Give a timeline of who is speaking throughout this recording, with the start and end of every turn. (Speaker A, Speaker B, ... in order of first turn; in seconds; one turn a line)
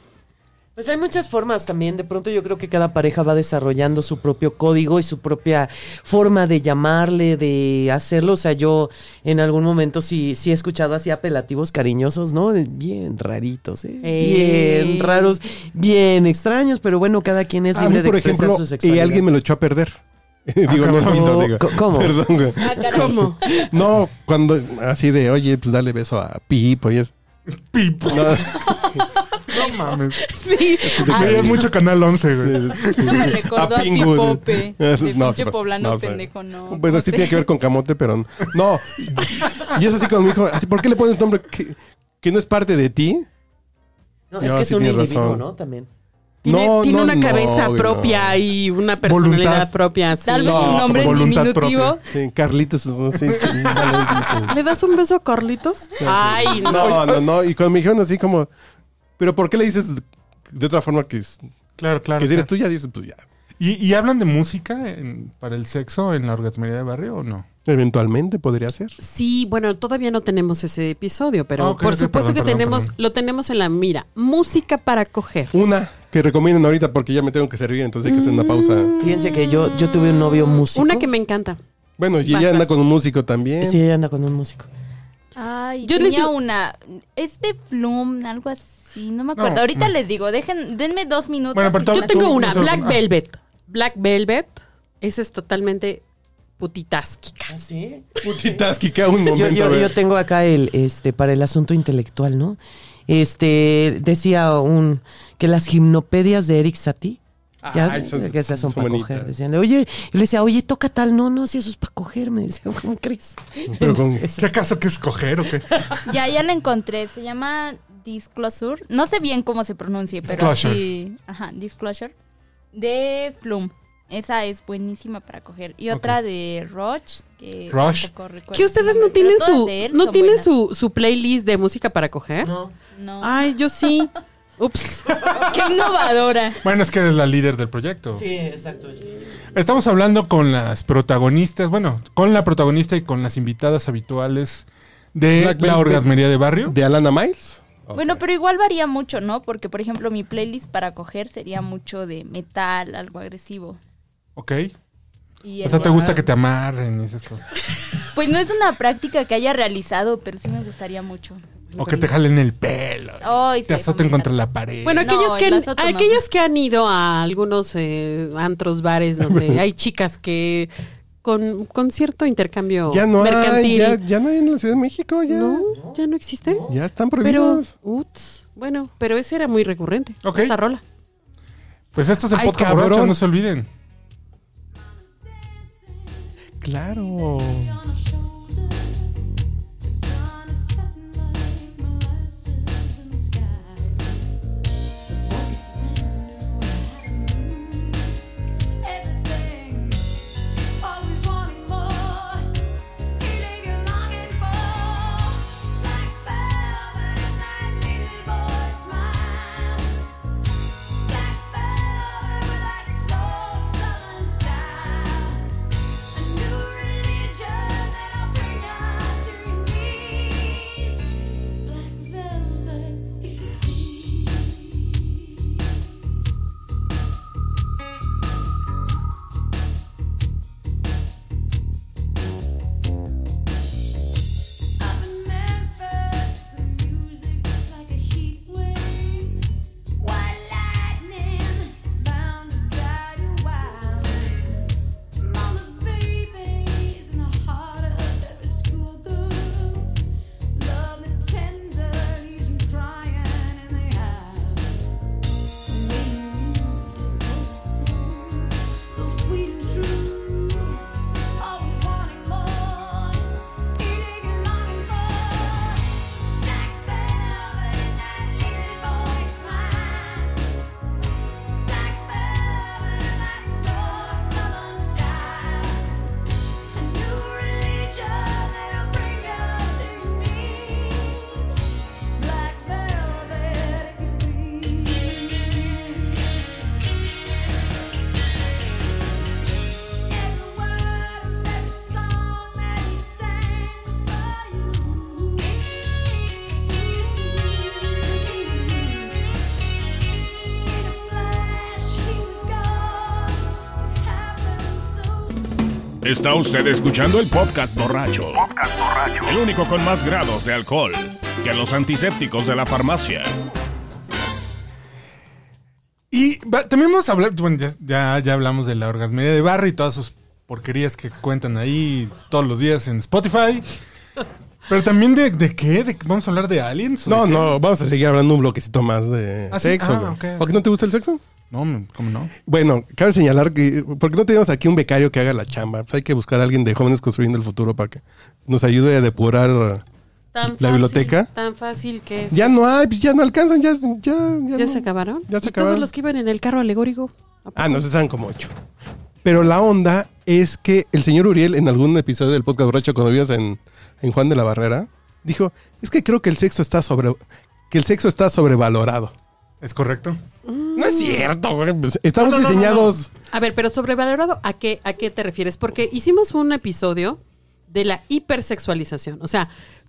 Speaker A: 0.8-19.2
Speaker B: 14.0-15.3
Speaker C: 17.7-27.1
Speaker D: 20.6-21.5
Speaker A: 21.0-22.2
Speaker E: 22.6-23.3
Speaker B: 22.9-23.4
Speaker D: 27.6-28.8
Speaker C: 28.1-28.6
Speaker D: 29.5-30.3
Speaker B: 30.2-31.7
Speaker C: 30.8-31.8
Speaker D: 31.0-33.3
Speaker C: 32.4-43.3
Speaker E: 32.9-37.5
Speaker A: 44.3-45.9
Speaker C: 44.4-45.4
Speaker C: 46.4-48.4
Speaker B: 46.4-51.0
Speaker D: 49.0-49.7
Speaker E: 50.2-52.0
Speaker D: 50.4-52.0
Speaker C: 52.1-54.5
Speaker D: 53.3-54.1
Speaker B: 54.5-57.2
Speaker C: 56.0-58.5
Speaker C: 59.2-61.4
Speaker D: 61.8-62.5
Speaker C: 62.2-63.2
Speaker D: 63.6-67.5
Speaker C: 67.7-69.0
Speaker B: 69.0-75.5
Speaker D: 71.6-72.9
Speaker C: 75.5-78.9
Speaker B: 78.0-81.6
Speaker A: 79.0-81.1
Speaker C: 82.0-83.8
Speaker B: 82.3-82.7
Speaker A: 83.6-84.7
Speaker E: 85.3-92.6
Speaker B: 85.8-86.3
Speaker D: 89.3-89.9
Speaker D: 91.5-93.0
Speaker B: 91.9-96.0
Speaker B: 96.6-97.5
Speaker A: 97.5-98.1
Speaker C: 98.2-100.0
Speaker A: 99.3-114.5
Speaker C: 107.6-109.3
Speaker C: 113.7-114.2
Speaker D: 114.3-115.8
Speaker E: 116.0-122.1
Speaker D: 120.2-120.9
Speaker E: 122.7-130.5
Speaker D: 127.7-128.1
Speaker B: 128.5-132.5
Speaker A: 132.4-132.7
Speaker E: 132.9-133.3
Speaker B: 133.2-135.2
Speaker E: 135.2-136.6
Speaker D: 136.6-138.2
Speaker A: 138.1-139.2
Speaker D: 139.5-146.8
Speaker C: 145.3-146.1
Speaker C: 146.6-148.2
Speaker E: 147.9-153.8
Speaker D: 154.3-154.7
Speaker E: 155.4-156.3
Speaker D: 155.6-157.6
Speaker E: 158.1-161.4
Speaker B: 161.7-162.1
Speaker D: 161.8-165.1
Speaker E: 163.2-164.3
Speaker B: 164.8-170.7
Speaker E: 164.9-166.2
Speaker C: 169.3-169.6
Speaker B: 171.2-174.0
Speaker C: 172.9-175.7
Speaker B: 175.3-176.6
Speaker A: 175.7-176.8
Speaker C: 176.7-177.7
Speaker B: 177.2-180.8
Speaker D: 180.2-180.5
Speaker D: 181.9-183.7
Speaker C: 182.3-183.2
Speaker F: 184.7-189.2
Speaker C: 186.6-187.8
Speaker F: 189.8-194.2
Speaker F: 195.1-198.1
Speaker F: 198.8-202.5
Speaker F: 203.2-210.0
Speaker F: 211.0-215.5
Speaker F: 216.1-225.3
Speaker F: 234.8-239.4
Speaker F: 240.0-244.7
Speaker F: 245.2-250.0
Speaker F: 250.5-254.8
Speaker F: 255.6-260.8
Speaker F: 261.4-270.4
Speaker F: 271.6-275.9
Speaker F: 276.7-281.6
Speaker F: 282.1-286.1
Speaker F: 290.1-296.1
Speaker F: 296.6-299.1
Speaker F: 300.5-305.6
Speaker G: 306.0-313.3
Speaker D: 316.1-323.6
Speaker D: 324.7-327.6
Speaker C: 327.1-331.2
Speaker D: 329.5-330.5
Speaker D: 331.5-332.3
Speaker C: 332.4-339.8
Speaker B: 340.3-342.5
Speaker C: 340.4-341.3
Speaker C: 342.3-345.9
Speaker B: 344.5-347.8
Speaker C: 347.6-348.5
Speaker C: 349.2-359.1
Speaker D: 359.6-360.2
Speaker B: 360.4-361.3
Speaker C: 360.7-363.1
Speaker D: 362.2-362.9
Speaker B: 363.3-369.5